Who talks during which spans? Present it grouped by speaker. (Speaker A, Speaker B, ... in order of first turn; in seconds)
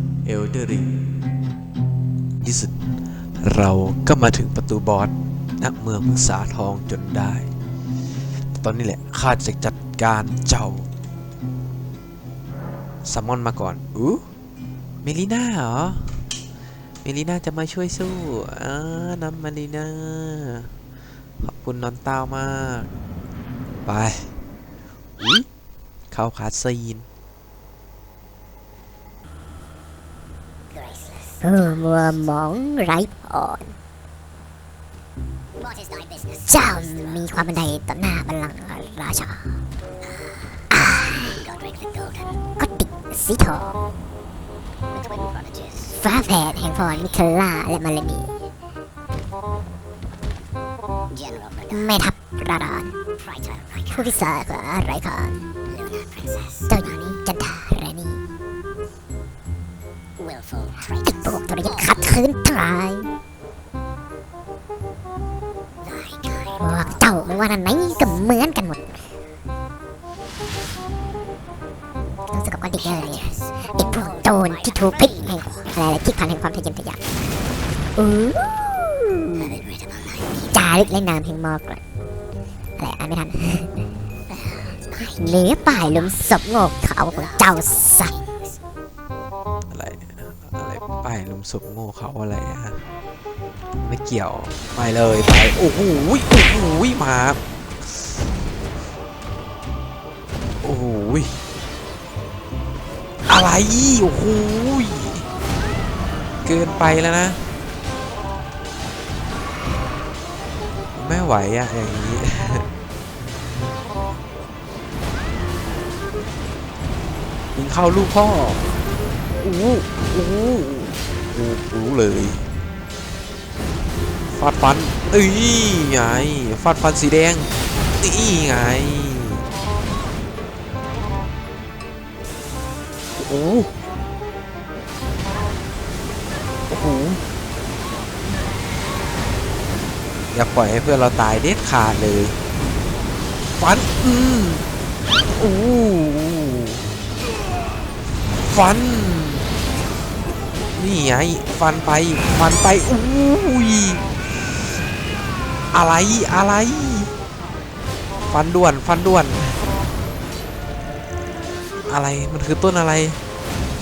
Speaker A: 0.2-0.9, 2.4-2.7, 3.4-7.5, 8.5-10.9, 13.0-14.3, 15.0-16.1, 17.0-20.7, 21.4-22.9, 23.9-24.3, 25.2-25.5, 26.1-27.1, 89.7-92.8, 93.8-97.4, 100.6-101.4, 103.3-105.3, 106.4-107.4, 110.9-112.7, 117.5-118.8, 119.4-122.5, 124.3-129.4, 133.2-133.7, 136.7-137.2, 140.3-142.4, 143.6-144.7, 145.3-146.8, 148.4-149.5, 150.8-154.1, 155.7-157.1, 158.3-159.6, 161.9-163.2
Speaker B: 30.7-31.4, 35.6-37.3, 41.1-42.5, 44.9-46.0, 46.9-47.2, 51.1-52.0, 53.2-54.2, 55.7-57.2, 60.2-62.2, 65.8-68.2, 72.8-75.8, 79.4-80.9, 84.3-86.2, 87.1-88.5
Speaker C: 31.4-33.8, 36.5-39.6, 40.7-41.4, 42.6-43.8, 45.9-48.3, 51.7-53.0, 53.9-55.5, 56.7-58.2, 61.0-63.1, 66.6-69.1, 72.3-77.0, 78.0-79.6, 80.5-81.8, 82.8-83.7, 84.9-88.1